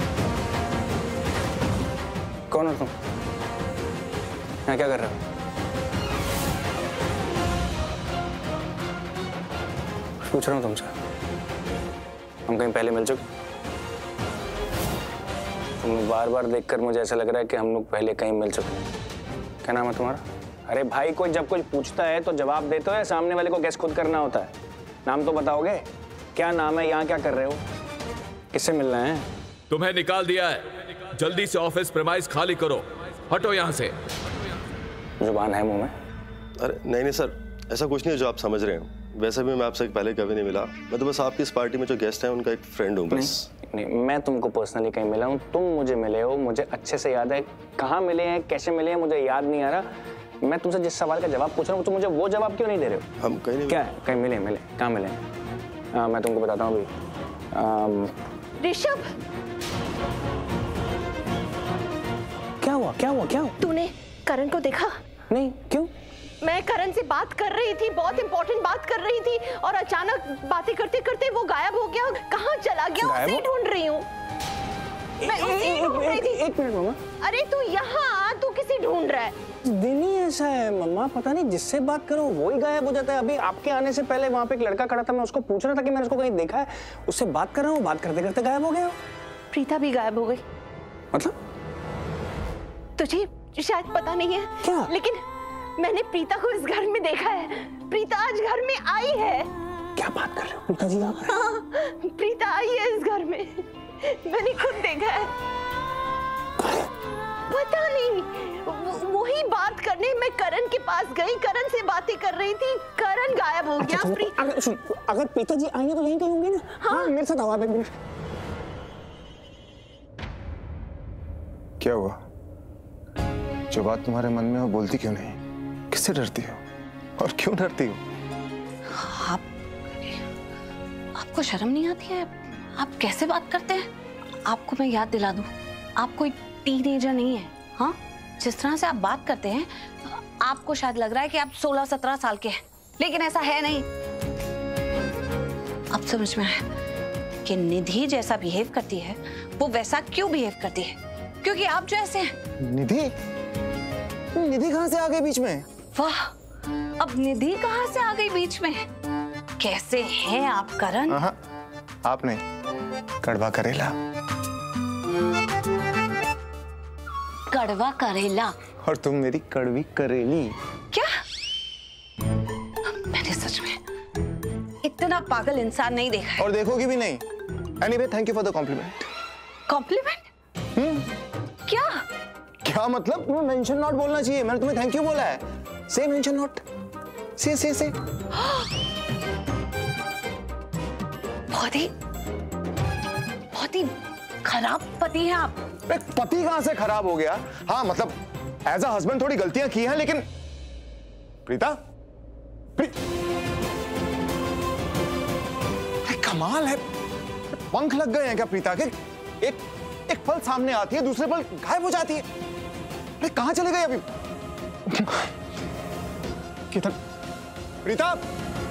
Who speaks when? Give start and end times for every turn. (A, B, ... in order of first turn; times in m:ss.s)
0:02.5-0:02.9 A
0:04.7-0:05.2 A
0:10.2-0:10.9 A
0:12.5-0:13.2 A
0:15.8-0:18.9 A
0:19.6-0:24.5 A
0:25.0-0:27.6 A
0:28.5-0:29.3 A
0:29.7-0:33.9 B
0:35.2-0:35.9 A
0:36.6-0:43.5 C
0:43.1-0:49.8 A
0:50.4-0:53.1 A
0:53.2-0:53.8 C
0:53.7-0:55.2 A
0:55.9-0:56.9 A
0:57.5-0:58.1 A
0:58.6-0:59.1 D
1:02.6-1:03.6 A
1:03.6-1:05.0 D
1:05.3-1:05.9 A
1:06.4-1:14.1 D
1:13.0-1:13.4 A
1:15.2-1:17.0 A
1:15.3-1:16.4 D
1:17.2-1:19.4 D
1:19.6-1:29.0 A
1:29.5-1:30.4 D
1:33.0-1:35.2 D
1:34.6-1:34.9 A
1:35.8-1:39.5 D
1:40.0-1:41.4 A
1:41.3-1:45.3 D
1:47.5-1:54.4 D
1:53.8-1:57.9 A
1:56.8-1:57.1 D
2:01.8-2:02.2 E
2:03.7-2:05.4 E
2:05.9-2:06.6 E
2:07.2-2:08.0 E
2:08.9-2:09.4 F
2:11.2-2:13.9 F
2:14.5-2:23.9 F
2:25.9-2:26.6 F
2:27.4-2:32.3 F
2:32.6-2:33.1 E
2:34.4-2:35.6 E
2:35.9-2:36.3 F
2:37.0-2:38.8 F
2:39.6-2:41.2 F
2:41.1-2:41.4 E
2:42.0-2:42.4 E
2:43.2-2:43.9 E
2:47.5-2:48.6 F
2:48.8-2:50.5 E
2:53.0-2:53.8 F
2:54.8-2:56.5 F
2:56.4-2:57.2 E
2:57.8-2:59.1 E
2:59.7-3:00.3 F
3:00.8-3:01.1 E
3:01.7-3:02.0 F
3:02.6-3:06.6 E
3:07.4-3:07.9 E
3:08.4-3:08.7 F
3:11.5-3:11.9 F
3:13.5-3:13.9 F
3:14.4-3:15.6 F
3:15.9-3:20.3 E
3:21.5-3:21.8 E
3:26.0-3:26.8 E
3:27.7-3:32.2 E
3:33.2-3:34.0 E
3:34.9-3:35.2 E
3:36.7-3:37.0 E
3:37.8-3:38.2 E